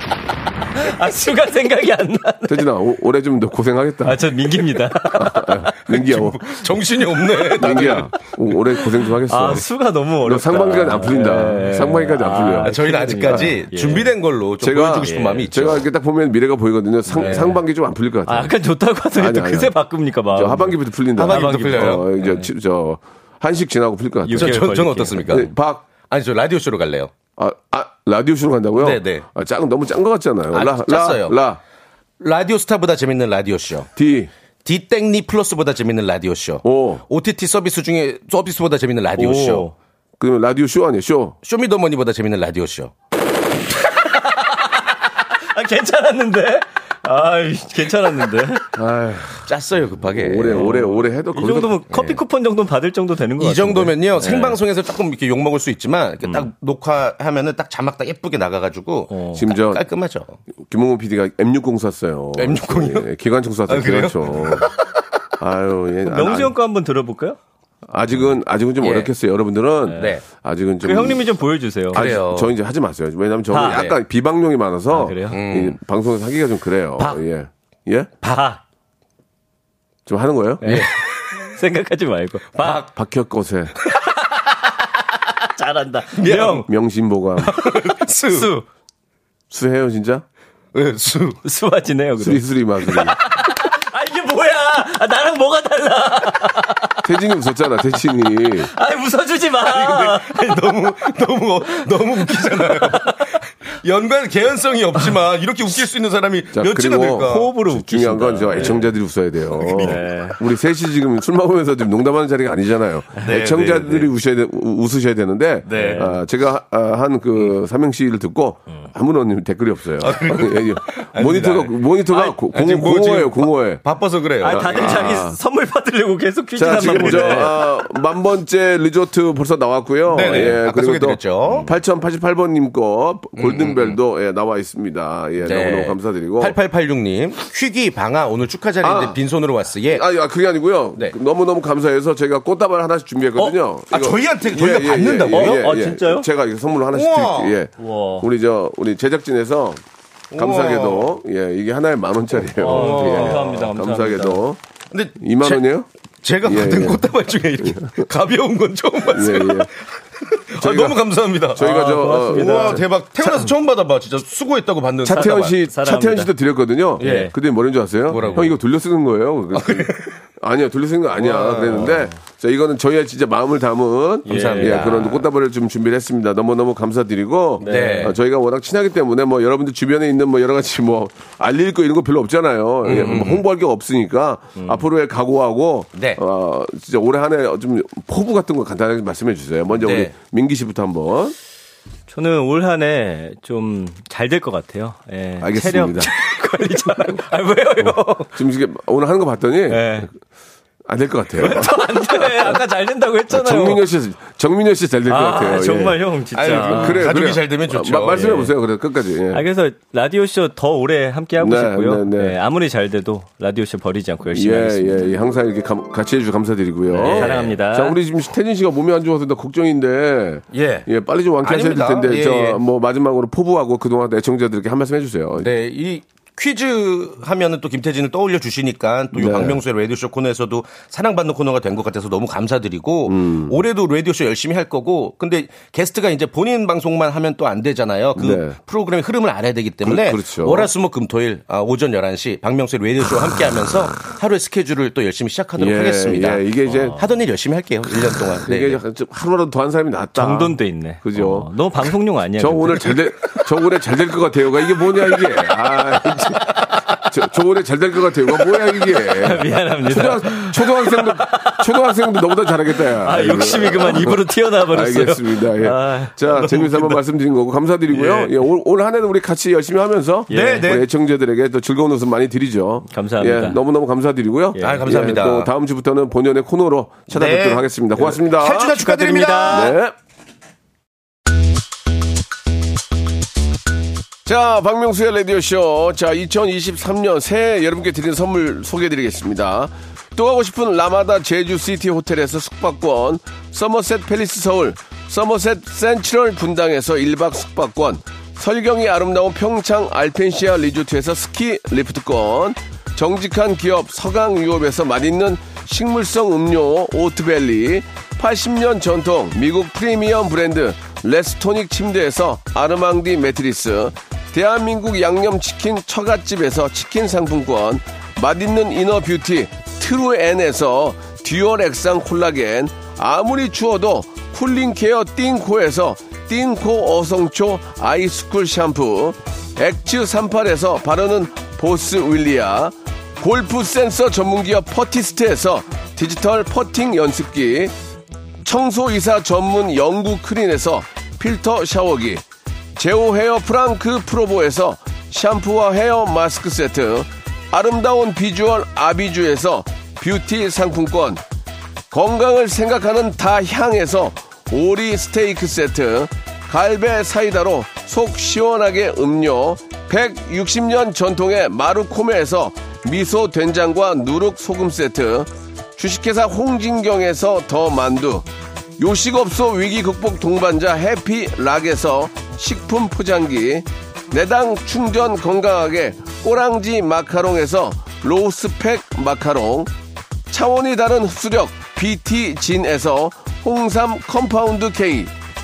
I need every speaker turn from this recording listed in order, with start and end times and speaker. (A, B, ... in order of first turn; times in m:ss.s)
0:00.8-0:02.7 A
0:02.5-0:04.2 B
0:04.0-0:05.7 A
0:05.1-0:06.5 B
0:05.9-0:08.1 C
0:07.4-0:07.9 A
0:07.6-0:09.7 B
0:09.3-0:14.1 A
0:10.2-0:13.6 B
0:12.6-0:15.9 C
0:14.6-0:18.5 B
0:15.0-0:15.5 A
0:17.2-0:17.6 A
0:17.2-0:17.6 C
0:18.3-0:22.5 A
0:19.2-0:19.8 B
0:20.3-0:24.6 B
0:21.2-0:22.1 C
0:24.2-0:25.5 A
0:24.4-0:25.5 C
0:25.3-0:25.8 B
0:26.0-0:27.1 C
0:27.4-0:31.6 B
0:28.8-0:29.2 C
0:30.5-0:31.4 C
0:32.2-0:33.9 C
0:34.0-0:34.3 B
0:34.6-0:39.7 C
0:36.6-0:37.0 B
0:39.2-0:39.7 B
0:39.2-0:39.7 A
0:40.2-0:41.4 B
0:41.4-0:42.9 C
0:43.9-0:44.8 A
0:45.5-0:48.8 A
0:48.8-0:49.4 B
0:49.4-0:50.8 C
0:50.2-0:51.8 B
0:50.5-0:54.6 A
0:51.9-0:52.2 C
0:53.4-1:00.4 C
0:56.2-0:56.5 A
0:59.1-0:59.4 A
0:59.3-0:59.8 B
1:00.6-1:04.7 B
1:02.4-1:03.1 C
1:03.7-1:04.7 C
1:05.4-1:06.6 B
1:06.1-1:07.4 A
1:07.9-1:11.2 B
1:08.8-1:09.1 C
1:09.9-1:10.2 A
1:10.0-1:10.2 C
1:10.8-1:12.0 A
1:11.9-1:12.5 C
1:11.9-1:18.1 B
1:13.5-1:13.9 A
1:13.6-1:14.0 C
1:14.9-1:15.4 A
1:15.3-1:15.8 C
1:18.2-1:18.6 A
1:20.1-1:20.8 B
1:20.6-1:22.8 A
1:20.6-1:21.5 C
1:22.6-1:22.8 C
1:22.8-1:23.7 B
1:25.3-1:26.7 A
1:26.2-1:26.7 C
1:26.4-1:27.5 B
1:27.4-1:28.5 C
1:28.3-1:28.6 A
1:29.5-1:30.2 B
1:30.7-1:31.4 C
1:31.4-1:37.0 A
1:32.2-1:33.2 B
1:37.0-1:38.7 B
1:38.7-1:40.6 A
1:39.7-1:47.5 C
1:42.4-1:43.3 A
1:46.5-2:03.8 B
1:47.2-1:49.0 A
1:49.6-1:50.2 C
1:49.8-1:50.4 A
1:53.2-1:54.1 C
1:55.7-1:56.1 C
1:55.7-1:56.2 A
2:00.0-2:05.3 C
2:04.4-2:07.6 A
2:04.4-2:05.4 B
2:06.6-2:16.6 B
2:06.7-2:07.6 C
2:10.1-2:11.7 C
2:11.5-2:11.7 A
2:13.4-2:14.0 C
2:15.4-2:20.0 C
2:18.8-2:19.2 B
2:19.9-2:29.8 B
2:23.9-2:25.7 C
2:25.2-2:26.3 A
2:26.9-2:27.6 C
2:27.8-2:28.3 A
2:30.3-2:31.1 C
2:30.4-2:34.6 B
2:32.6-2:33.6 C
2:32.6-2:34.4 A
2:34.9-2:35.7 C
2:35.2-2:35.9 B
2:36.2-2:45.5 C
2:36.4-2:37.1 B
2:37.6-2:38.0 B
2:39.1-2:39.7 B
2:40.6-2:41.0 B
2:41.5-2:42.8 B
2:41.6-2:43.5 A
2:45.0-3:11.4 B
2:45.1-2:46.3 A
2:47.0-2:47.3 C
2:47.0-2:47.3 A
2:48.1-2:48.6 C
2:48.1-2:48.5 A
2:49.5-2:50.2 C
2:51.2-2:52.2 A
2:54.3-2:55.1 A
2:54.3-2:55.3 C
2:57.6-2:58.2 A
2:57.6-2:58.2 C
3:02.8-3:03.4 C
3:04.6-3:04.8 A
3:06.0-3:06.2 C
3:09.8-3:10.1 C
3:12.1-3:18.4 A
3:15.4-3:16.1 B
3:17.8-3:20.1 B
3:19.7-3:20.1 A
3:20.9-3:21.8 B
3:21.4-3:23.8 A
3:23.3-3:29.4 B
3:25.1-3:27.1 A
3:26.4-3:28.5 C
3:28.2-3:28.5 A
3:29.3-3:35.0 A
3:31.4-3:32.4 B
3:34.3-3:45.5 B
3:36.9-3:37.5 C
3:37.0-3:38.0 A
3:40.5-3:40.9 C
3:41.4-3:42.6 C
3:45.4-4:08.8 C
3:49.2-3:49.6 B
3:53.1-3:53.6 B
3:58.2-3:58.6 B
3:59.8-4:00.7 B
4:05.6-4:07.0 B
4:06.7-4:07.0 A
4:08.4-4:11.5 B
4:10.2-4:13.4 A
4:12.4-4:38.7 B
4:16.3-4:17.0 A
4:18.7-4:21.7 A
4:23.0-4:27.0 A
4:28.0-4:28.3 A
4:30.3-4:30.7 A
4:30.3-4:30.9 C
4:32.9-4:33.6 A
4:34.6-4:34.9 A
4:34.6-4:35.5 C
4:37.1-4:39.8 C
4:38.7-4:39.8 A
4:39.5-4:39.9 B
4:44.3-5:37.7 B
5:38.4-5:42.2 B
5:42.8-5:51.2 B
5:51.9-6:08.3 B
6:08.8-6:19.7 B
6:20.3-6:25.1 B